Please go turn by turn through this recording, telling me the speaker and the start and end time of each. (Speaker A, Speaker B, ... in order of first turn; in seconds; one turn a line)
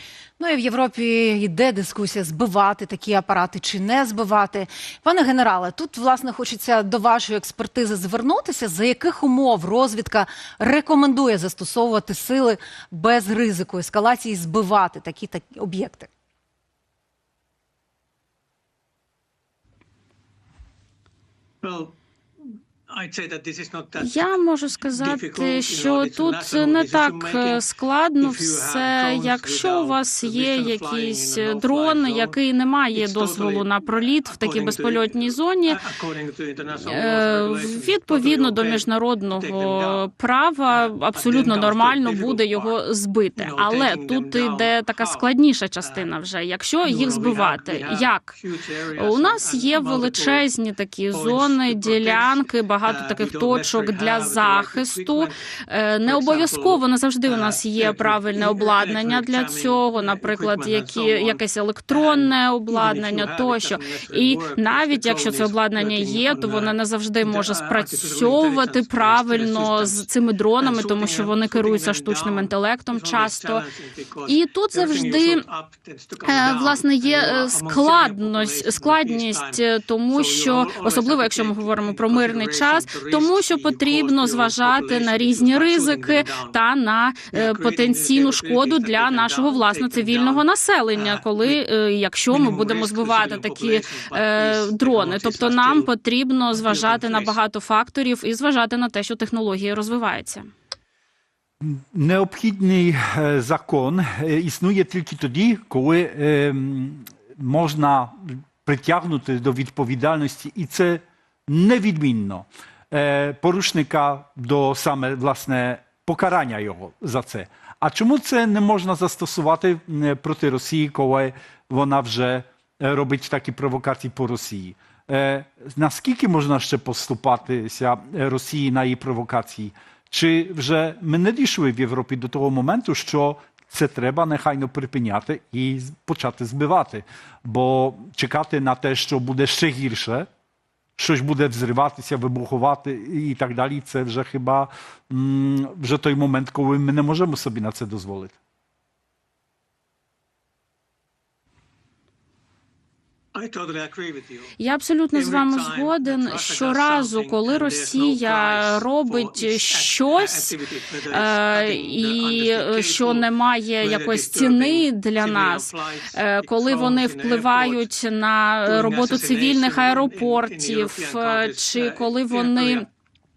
Speaker A: 0.4-16.1
Speaker B: 21.6-21.9
Speaker B: 22.9-27.6
Speaker C: 24.0-35.8
Speaker B: 28.2-32.4
Speaker B: 33.0-40.0
Speaker C: 36.8-48.4
Speaker B: 40.7-42.8
Speaker B: 43.4-45.2
Speaker B: 45.8-46.1
Speaker B: 46.8-50.5
Speaker C: 49.0-73.6
Speaker B: 51.1-55.4
Speaker B: 56.0-70.1
Speaker B: 70.6-86.6
Speaker C: 74.3-75.4
Speaker C: 76.2-100.5
Speaker B: 87.3-91.6
Speaker B: 92.3-95.9
Speaker B: 96.5-97.4
Speaker D: 101.6-140.3
Speaker D: 141.0-148.4
Speaker B: 153.3-154.5
Speaker C: 154.6-160.6
Speaker B: 155.2-163.3
Speaker C: 161.1-172.8
Speaker B: 163.8-167.9
Speaker B: 168.7-172.9